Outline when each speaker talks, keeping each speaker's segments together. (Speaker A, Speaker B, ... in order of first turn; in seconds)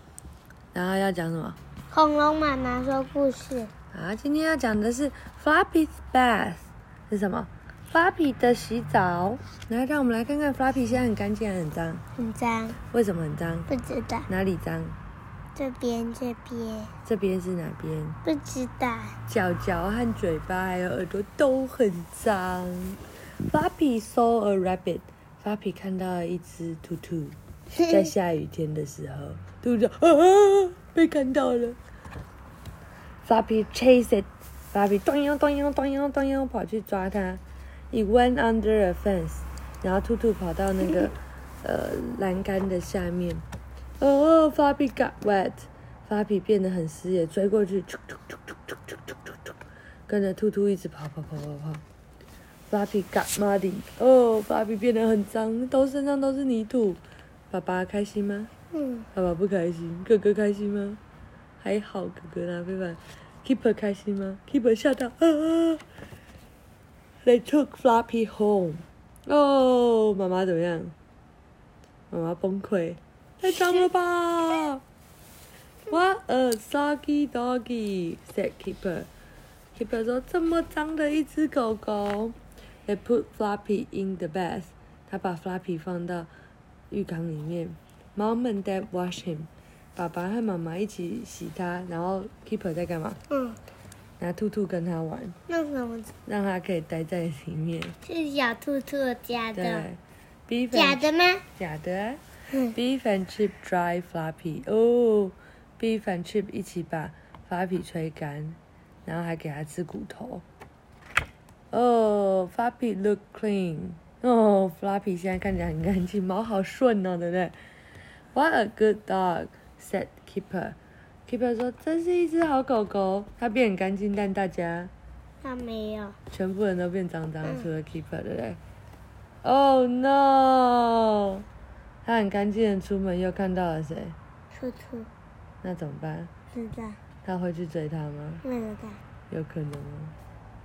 Speaker A: 0.7-1.6, 3.9-12.0, 12.9-13.7, 14.3-15.0, 17.1-18.2, 19.3-31.8, 33.2-43.4, 44.0-49.5, 50.1-51.8, 52.7-58.5, 59.1-61.0, 61.6-65.8, 67.2-70.9, 72.1-74.8, 75.9-79.1, 79.7-86.3, 86.9-93.2, 94.2-95.4, 96.2-98.0, 99.5-101.0, 101.6-102.2, 102.7-110.4, 111.7-117.5, 118.3-124.9, 126.3-128.6, 129.4-131.4, 132.0-134.2, 135.6-136.3, 137.2-138.4, 139.3-140.1
Speaker B: 1.9-3.7, 12.2-12.8, 13.7-14.3, 15.5-16.9, 18.2-19.1, 27.7-28.0, 58.7-59.1, 93.3-93.6, 95.5-96.1, 98.0-99.9, 100.7-101.4, 125.4-126.2, 134.5-135.1, 136.5-137.0, 138.4-139.0